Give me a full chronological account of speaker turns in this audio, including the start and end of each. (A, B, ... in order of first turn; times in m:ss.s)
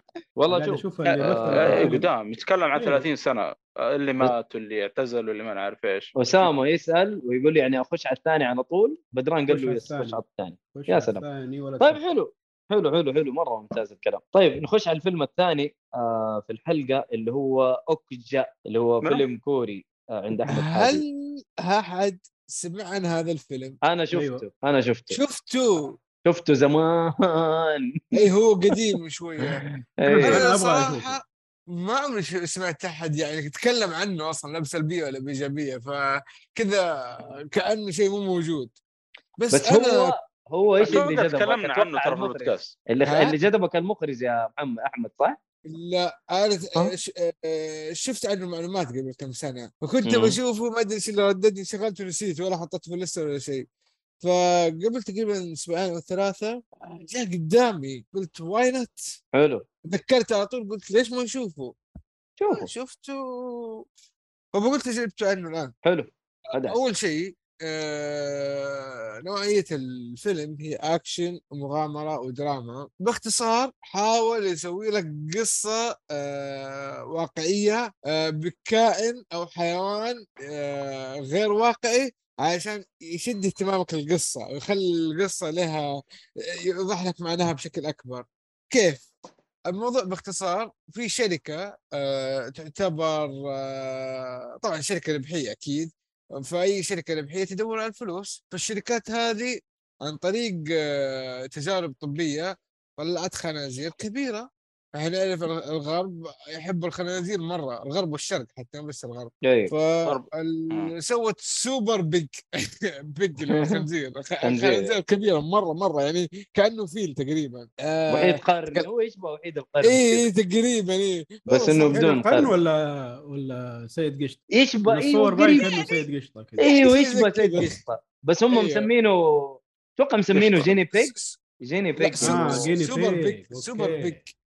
0:00.4-0:01.9 A
0:00.5-0:02.1 B
0:01.1-0:06.2 C
0:02.8-0:03.0 B
0:06.2-0:11.2 A
0:09.5-0:10.2 B
0:10.7-0:12.0 B
0:11.8-0:21.0 A
0:20.5-0:23.8 D
0:23.9-0:25.2 A
0:24.1-0:24.4 B
0:25.1-0:25.9 D
0:26.2-0:28.2 A
0:28.1-0:29.6 D
0:30.0-0:30.5 A
0:30.0-0:31.2 B
0:30.2-0:38.8 D
0:39.4-0:40.1 D
0:39.5-0:45.4 A
0:40.8-0:42.8 C
0:43.0-0:43.5 D
0:45.7-0:53.7 D
0:50.0-0:50.4 A
0:54.2-0:59.0 D
0:59.4-0:59.6 A
0:59.8-1:01.8 D
1:02.4-1:02.7 A
1:02.5-1:03.8 D
1:04.6-1:05.8 D
1:05.9-1:06.8 A
1:06.7-1:29.1 D
1:29.7-1:58.9 D
1:49.4-1:49.7 A
1:50.1-1:50.9 C
1:53.5-1:53.8 A
1:54.4-1:54.9 A
1:58.1-2:00.2 A
1:59.8-2:02.0 D
2:01.5-2:02.5 A
2:01.8-2:06.8 B
2:04.5-2:05.7 A
2:05.2-2:06.0 D
2:06.6-2:12.7 A
2:06.7-2:07.8 D
2:08.5-2:08.9 D
2:10.3-2:11.4 D
2:12.0-2:14.3 D
2:12.2-2:14.2 B